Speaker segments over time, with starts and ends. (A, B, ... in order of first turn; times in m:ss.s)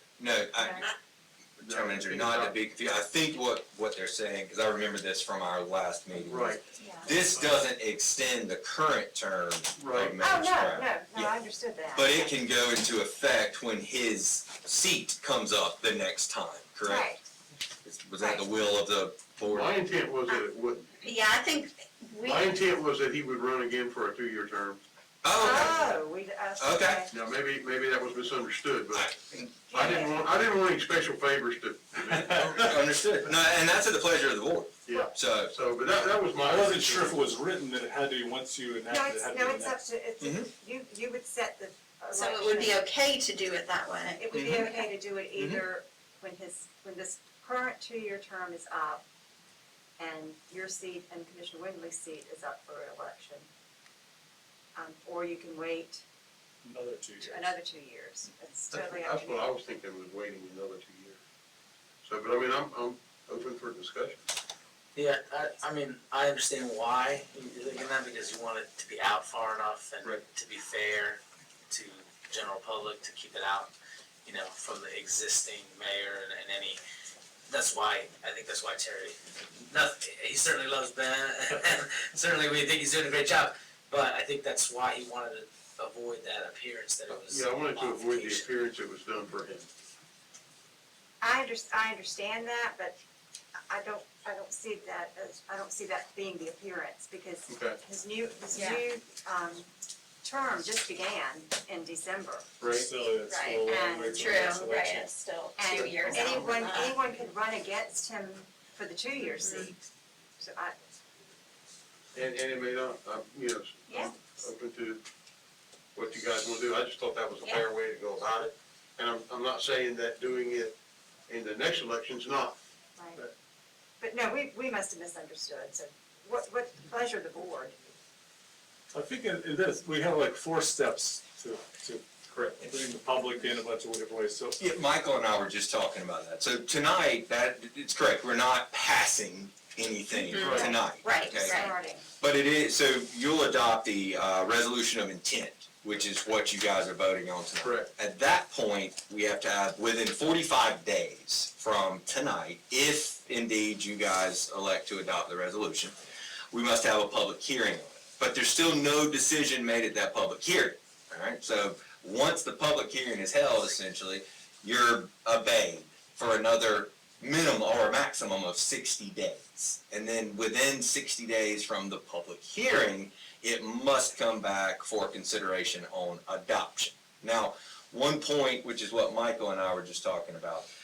0:00.2-0:00.9 A
0:00.6-0:00.9 B
0:01.6-0:11.3 A
0:01.6-0:02.6 C
0:06.2-0:06.6 C
0:09.8-0:10.2 C
0:10.2-0:12.3 B
0:11.9-0:17.1 A
0:16.8-0:17.2 B
0:17.8-0:19.7 A
0:18.2-0:18.4 B
0:19.4-0:21.0 C
0:21.0-0:22.4 D
0:22.2-0:24.8 C
0:25.2-0:26.0 A
0:25.4-0:27.1 B
0:26.6-0:27.0 A
0:27.1-0:29.1 C
0:28.9-0:29.5 A
0:29.3-0:30.2 B
0:29.7-0:32.8 C
0:32.1-0:32.7 E
0:32.5-0:35.5 A
0:34.9-0:37.3 C
0:34.9-0:35.2 B
0:36.4-0:39.8 E
0:38.9-0:42.8 B
0:40.2-0:40.5 A
0:42.1-0:44.2 D
0:44.2-0:49.0 B
0:44.3-0:44.7 A
0:45.4-0:45.6 A
0:50.0-0:53.5 B
0:54.8-0:56.0 B
0:56.6-0:57.6 E
0:57.2-0:59.5 B
0:58.7-1:01.2 C
1:02.0-1:04.2 C
1:05.0-1:13.7 F
1:14.2-1:16.8 F
1:17.5-1:28.5 F
1:27.1-1:29.7 C
1:31.2-1:33.0 B
1:33.7-1:39.7 B
1:37.5-1:37.8 C
1:38.5-1:38.8 D
1:40.2-1:42.5 B
1:42.6-1:42.9 C
1:42.7-1:45.1 E
1:43.3-1:43.6 D
1:43.6-1:44.3 B
1:44.2-1:47.0 D
1:45.6-1:49.8 B
1:45.7-1:46.6 C
1:46.0-1:46.4 E
1:49.4-1:49.7 D
1:50.4-1:50.8 B
1:52.1-1:55.0 C
1:53.9-1:54.1 B
1:56.0-2:00.7 C
2:01.3-2:02.6 C
2:03.0-2:03.2 B
2:04.0-2:07.8 B
2:08.9-2:14.6 E
2:14.6-2:21.7 A
2:20.1-2:21.7 D
2:20.3-2:20.7 C
2:21.2-2:22.1 B
2:22.2-2:36.0 A
2:27.6-2:27.9 C
2:36.5-3:00.7 A